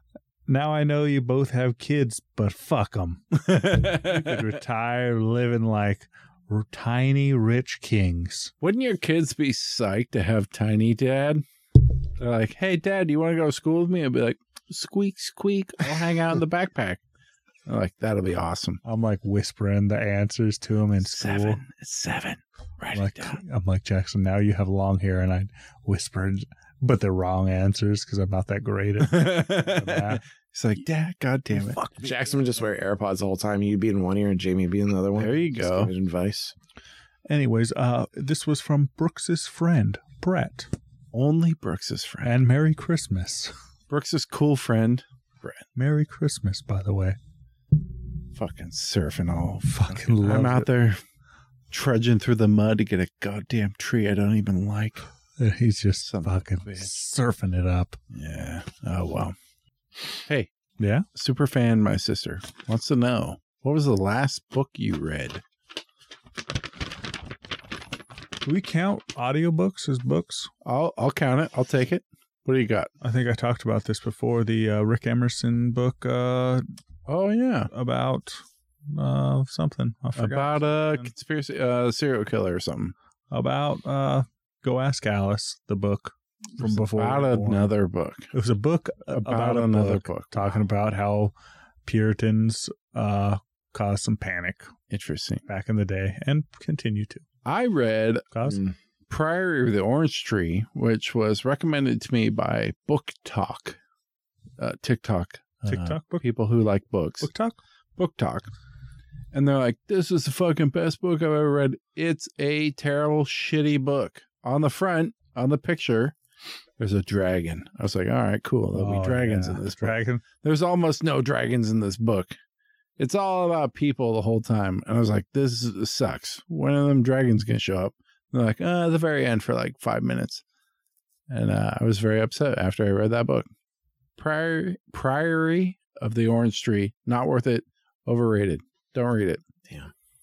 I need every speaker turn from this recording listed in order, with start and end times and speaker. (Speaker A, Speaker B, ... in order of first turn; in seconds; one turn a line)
Speaker A: 0.5-8.5
Speaker B: 3.4-4.5
Speaker B: 8.6-11.4
Speaker B: 12.2-17.0
Speaker B: 17.7-18.8
Speaker A: 18.8-21.6
Speaker B: 21.0-23.4
Speaker A: 22.9-30.2
Speaker B: 29.0-31.8
Speaker A: 31.6-32.1
Speaker C: 32.0-36.5
Speaker B: 35.2-35.9
Speaker A: 37.3-40.7
Speaker B: 41.1-42.4
Speaker A: 42.2-43.5
Speaker B: 43.9-45.6
Speaker A: 45.8-47.2
Speaker B: 48.3-51.0
Speaker A: 49.7-50.7
Speaker B: 51.7-55.1
Speaker A: 55.4-58.0
Speaker B: 56.0-57.0
Speaker B: 58.1-59.4
Speaker B: 60.3-60.5
Speaker A: 60.8-61.1
Speaker B: 61.1-65.4
Speaker A: 68.4-70.5
Speaker B: 70.6-72.9
Speaker A: 73.0-76.6
Speaker B: 77.1-77.7
Speaker A: 77.7-81.1
Speaker B: 80.2-82.9
Speaker A: 83.3-87.8
Speaker B: 86.6-88.3
Speaker A: 88.3-91.3
Speaker B: 89.1-90.5
Speaker A: 91.8-94.7
Speaker B: 94.9-95.4
Speaker A: 95.5-97.2
Speaker B: 97.5-98.3
Speaker A: 98.3-98.6
Speaker B: 99.1-103.8
Speaker B: 104.6-107.3
Speaker A: 105.6-106.2
Speaker A: 107.2-107.6
Speaker B: 108.0-108.5
Speaker B: 109.3-116.2
Speaker B: 116.8-122.4
Speaker A: 118.7-120.2
Speaker B: 123.0-130.4
Speaker B: 131.3-133.5
Speaker B: 134.2-139.4